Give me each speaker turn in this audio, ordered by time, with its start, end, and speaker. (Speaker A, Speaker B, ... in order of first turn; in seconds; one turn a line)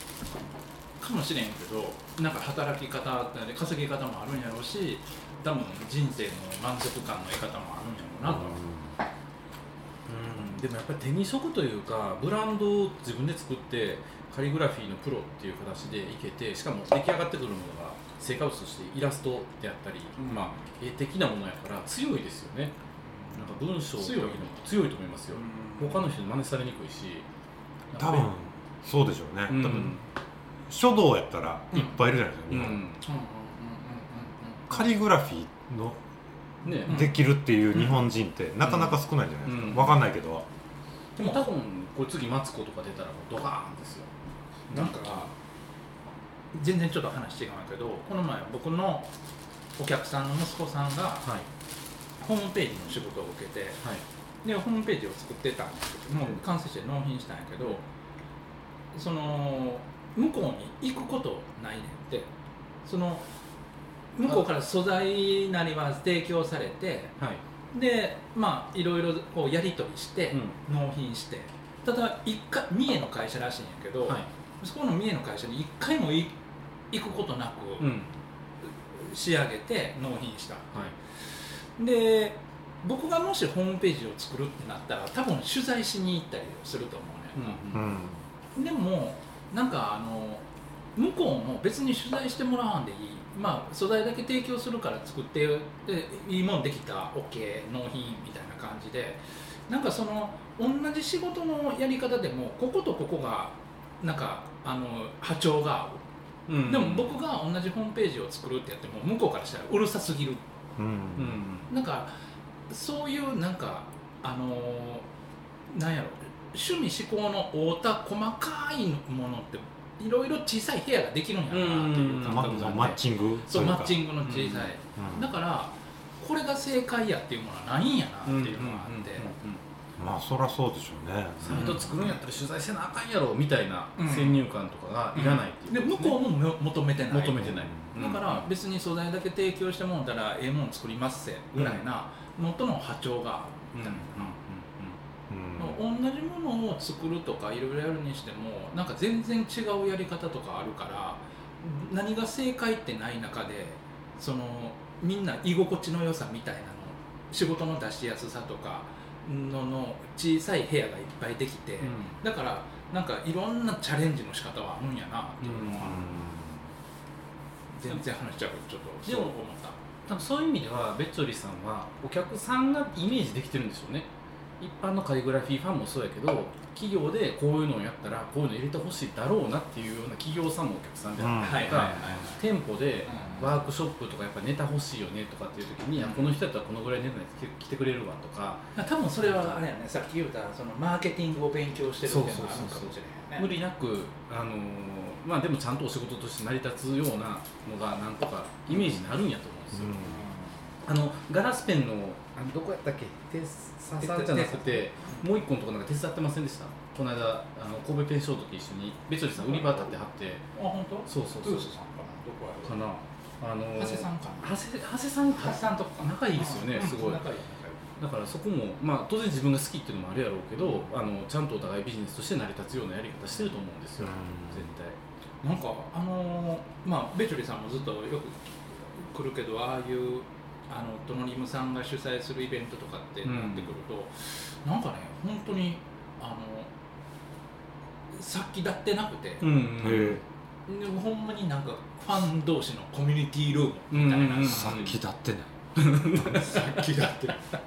Speaker A: 1.0-8.6
Speaker B: 8.2-8.9
Speaker C: 10.1-22.7
Speaker A: 20.2-20.6
Speaker C: 23.4-27.2
Speaker A: 24.0-24.5
Speaker A: 25.3-26.1
Speaker C: 27.9-28.3
Speaker B: 28.0-29.9
Speaker C: 29.5-30.0
Speaker B: 30.7-32.8
Speaker C: 32.5-33.0
Speaker A: 33.0-34.7
Speaker B: 34.7-36.0
Speaker C: 36.6-37.2
Speaker B: 36.8-40.5
Speaker A: 36.9-37.1
Speaker C: 38.6-38.9
Speaker C: 39.5-40.0
Speaker A: 41.2-41.4
Speaker C: 41.2-44.1
Speaker A: 44.7-45.3
Speaker A: 46.5-49.1
Speaker A: 49.8-51.3
Speaker A: 52.2-53.8
Speaker A: 54.4-57.8
Speaker A: 58.9-62.3
Speaker A: 62.9-63.2
Speaker A: 64.1-67.2
Speaker A: 67.7-76.3
Speaker A: 76.9-78.0
Speaker C: 77.8-78.1
Speaker A: 78.9-80.7
Speaker A: 81.8-87.7
Speaker C: 87.4-87.9
Speaker B: 87.7-88.2
Speaker A: 88.5-90.5
Speaker A: 91.0-106.0
Speaker C: 106.5-107.2
Speaker A: 106.6-110.4
Speaker B: 110.8-111.4
Speaker C: 111.2-111.7
Speaker A: 111.7-112.1
Speaker A: 112.7-115.1
Speaker A: 115.7-129.3
Speaker C: 121.5-123.0
Speaker B: 122.2-124.0
Speaker C: 124.2-124.7
Speaker B: 125.0-125.2
Speaker C: 128.3-129.6
Speaker B: 130.0-132.2
Speaker C: 131.4-136.3
Speaker A: 131.6-131.8
Speaker A: 134.0-134.4
Speaker A: 135.1-144.3
Speaker C: 137.1-138.5
Speaker C: 141.6-141.8
Speaker C: 143.7-144.9
Speaker B: 145.3-145.8
Speaker A: 145.6-166.1
Speaker C: 161.8-162.2
Speaker C: 165.4-166.1
Speaker B: 165.8-166.6
Speaker A: 167.7-169.8
Speaker C: 169.1-169.4
Speaker C: 170.1-174.1
Speaker C: 174.6-188.7
Speaker B: 181.2-181.9
Speaker A: 181.4-182.4
Speaker A: 183.1-183.6
Speaker A: 186.0-186.3
Speaker A: 188.8-193.5
Speaker C: 192.1-200.1
Speaker B: 199.8-200.2
Speaker A: 200.0-200.5
Speaker C: 200.9-210.5
Speaker A: 204.0-205.2
Speaker A: 209.4-209.9
Speaker A: 210.5-212.8
Speaker C: 211.1-211.7
Speaker C: 212.6-217.2
Speaker A: 213.7-214.6
Speaker A: 215.4-217.8
Speaker C: 218.0-225.0
Speaker A: 220.7-220.9
Speaker B: 224.0-224.6
Speaker A: 225.4-236.7
Speaker C: 233.2-233.7
Speaker A: 238.1-239.6
Speaker C: 239.4-240.2
Speaker B: 239.8-240.2
Speaker A: 240.7-244.9
Speaker C: 243.9-245.0
Speaker B: 244.4-245.5
Speaker C: 245.8-247.3
Speaker A: 246.3-247.3